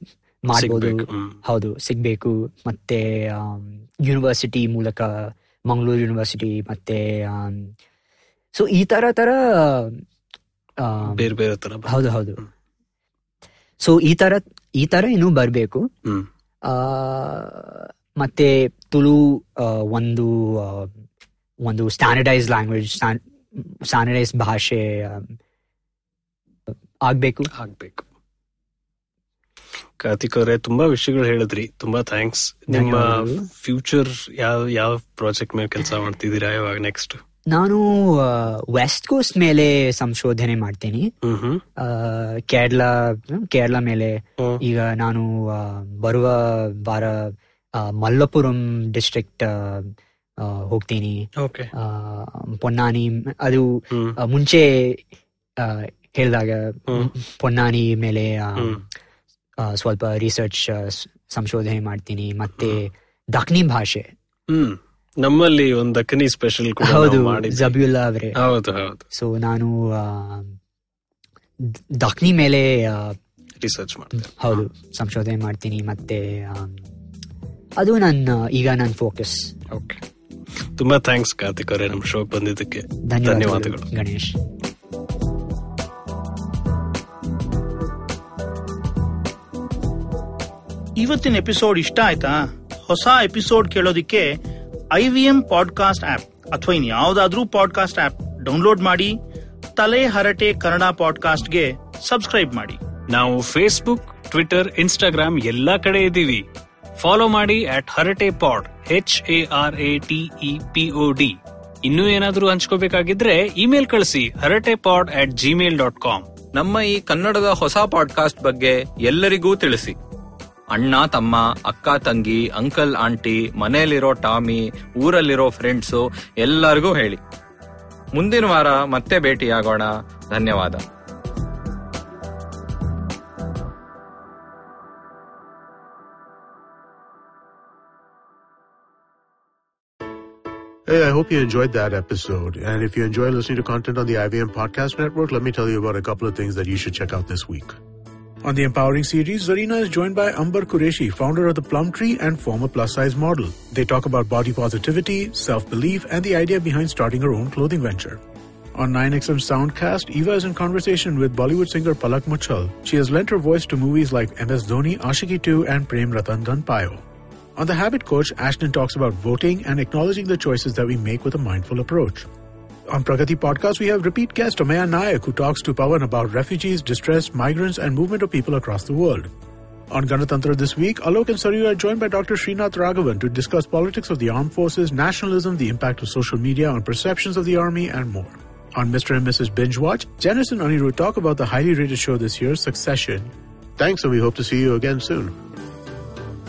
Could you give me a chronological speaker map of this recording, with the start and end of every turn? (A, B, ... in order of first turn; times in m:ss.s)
0:00.5-0:07.7 A
0:00.5-0:01.4 B
0:08.5-0:10.0 A
0:10.8-0:11.3 A
0:11.0-0:12.4 B
0:11.8-0:12.4 A
0:13.8-0:15.9 A
0:16.6-0:20.9 A
0:21.6-0:25.3 A
0:27.0-0:27.5 A
0:27.5-0:28.0 B
0:30.0-0:37.2 B
0:32.7-0:33.4 A
0:37.5-0:41.1 A
0:41.2-0:41.6 B
0:41.8-0:55.0 A
0:51.4-0:51.7 B
0:53.9-0:54.2 B
0:55.6-0:58.8 A
0:58.6-0:58.8 B
0:59.6-1:04.1 A
1:04.5-1:07.7 B
1:06.8-1:08.3 A
1:08.4-1:09.0 B
1:09.1-1:10.5 A
1:11.6-1:13.2 A
1:13.6-1:14.6 B
1:14.2-1:16.8 A
1:17.8-1:19.5 A
1:19.7-1:20.0 B
1:20.8-1:23.9 B
1:23.0-1:24.4 A
1:31.0-1:34.3 C
1:34.9-1:39.2 C
1:39.8-1:42.8 C
1:43.1-1:46.4 B
1:47.0-1:56.3 B
1:56.5-1:59.9 D
2:00.7-2:07.2 D
2:08.1-2:10.8 D
2:20.9-2:27.7 E
2:28.4-2:38.2 E
2:38.7-2:47.0 E
2:47.6-2:52.3 E
2:52.9-2:59.3 E
2:59.9-3:15.3 E